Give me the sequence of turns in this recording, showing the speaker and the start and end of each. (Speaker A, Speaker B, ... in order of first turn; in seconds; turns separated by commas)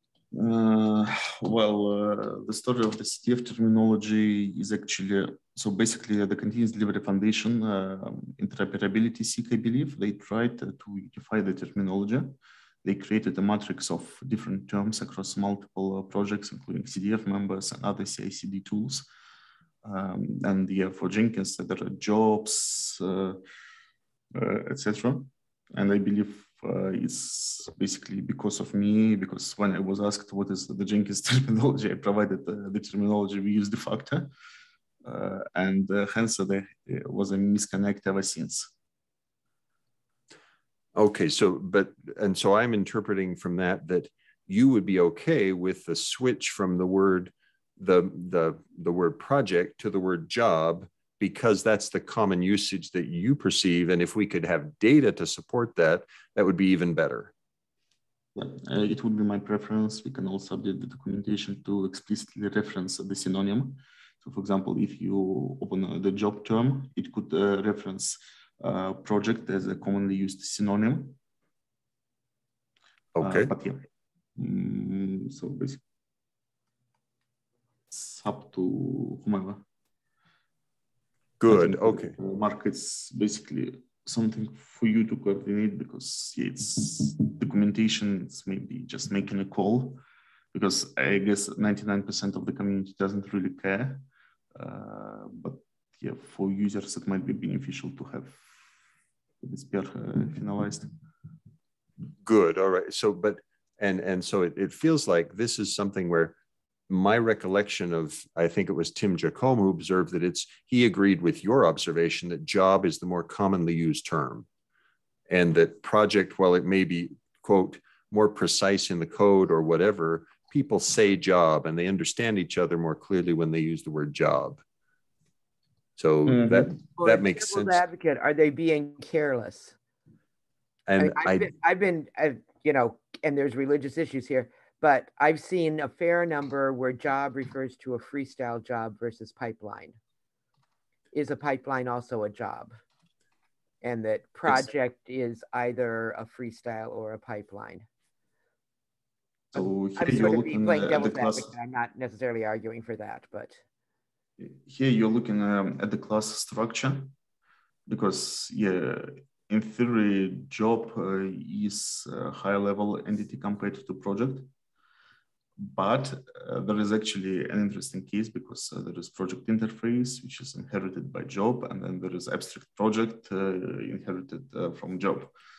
Speaker A: 0.3-19.1, Speaker A: 19.8-23.4, Speaker A: 24.3-34.3, Speaker A: 35.0-38.7, Speaker B: 41.0-57.3, Speaker A: 58.3-71.2, Speaker B: 73.1-73.5, Speaker A: 73.2-75.8, Speaker A: 77.9-79.6, Speaker B: 81.4-82.2, Speaker A: 81.5-90.0, Speaker A: 90.5-98.4, Speaker A: 99.4-100.9, Speaker B: 102.2-106.4, Speaker B: 106.9-114.5, Speaker B: 115.3-124.6, Speaker B: 126.0-127.8, Speaker A: 126.2-126.8, Speaker C: 127.0-129.7, Speaker B: 130.9-131.5, Speaker C: 131.0-140.0, Speaker C: 141.1-142.8, Speaker C: 143.8-147.8, Speaker A: 149.5-151.5, Speaker C: 149.9-153.6, Speaker A: 154.4-157.1, Speaker A: 157.9-164.5, Speaker A: 165.6-175.3